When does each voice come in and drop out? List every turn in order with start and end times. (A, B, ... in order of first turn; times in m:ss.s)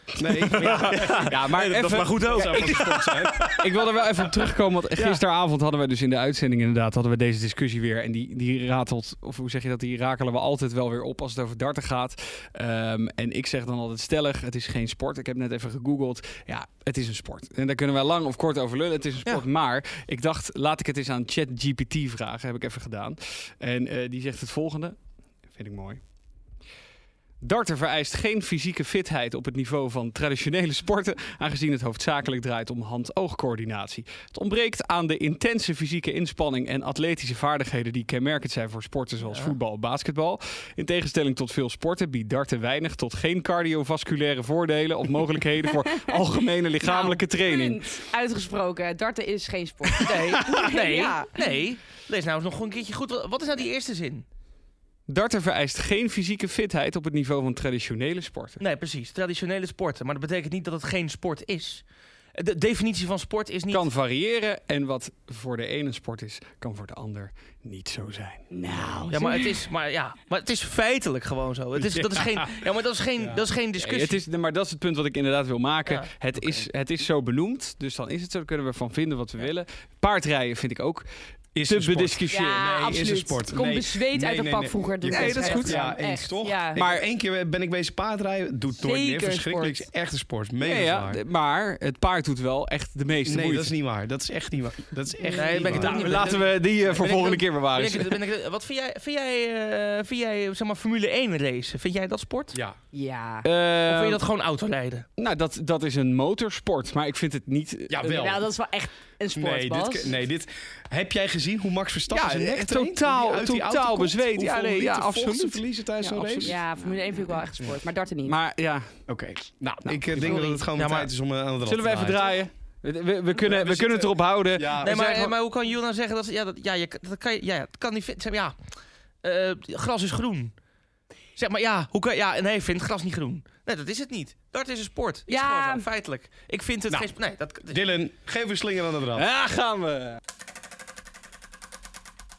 0:00.2-0:01.4 A
0:00.4-0:03.5 B
0:00.4-0:26.0 C
0:02.2-0:03.7 A
0:27.4-0:47.8 C
0:39.2-0:39.6 B
0:46.8-0:51.6 D
0:50.0-0:54.2 B
0:55.1-0:58.6 C
0:58.6-1:01.8 B
1:02.4-1:03.9 B
1:03.7-1:08.5 C
1:08.5-1:09.6 D
1:09.1-1:14.2 B
1:11.8-1:12.6 A
1:13.8-1:21.1 C
1:16.4-1:16.6 A
1:21.6-1:31.2 A
1:21.7-1:22.6 C
1:22.3-1:26.8 D
1:25.1-1:25.9 C
1:26.8-1:27.0 C
1:28.8-1:29.9 D
1:30.6-1:33.7 C
1:33.2-1:36.4 A
1:35.2-1:35.5 D
1:35.3-1:42.6 B
1:35.6-1:38.2 C
1:42.9-1:43.5 D
1:43.4-1:44.2 C
1:43.8-1:45.1 B
1:45.2-1:48.2 C
1:47.9-1:48.5 A
1:48.0-1:50.1 D
1:49.3-1:56.6 A
1:52.1-1:56.6 C
1:56.4-1:58.4 D
1:58.2-1:59.0 C
1:59.1-2:02.4 A
1:59.9-2:00.6 C
2:00.8-2:01.1 B
2:01.6-2:05.3 C
2:03.4-2:05.0 A
2:04.8-2:08.6 B
2:09.2-2:10.5 B
2:11.4-2:17.8 B
2:15.3-2:15.9 D
2:17.7-2:19.3 A
2:19.2-2:20.2 C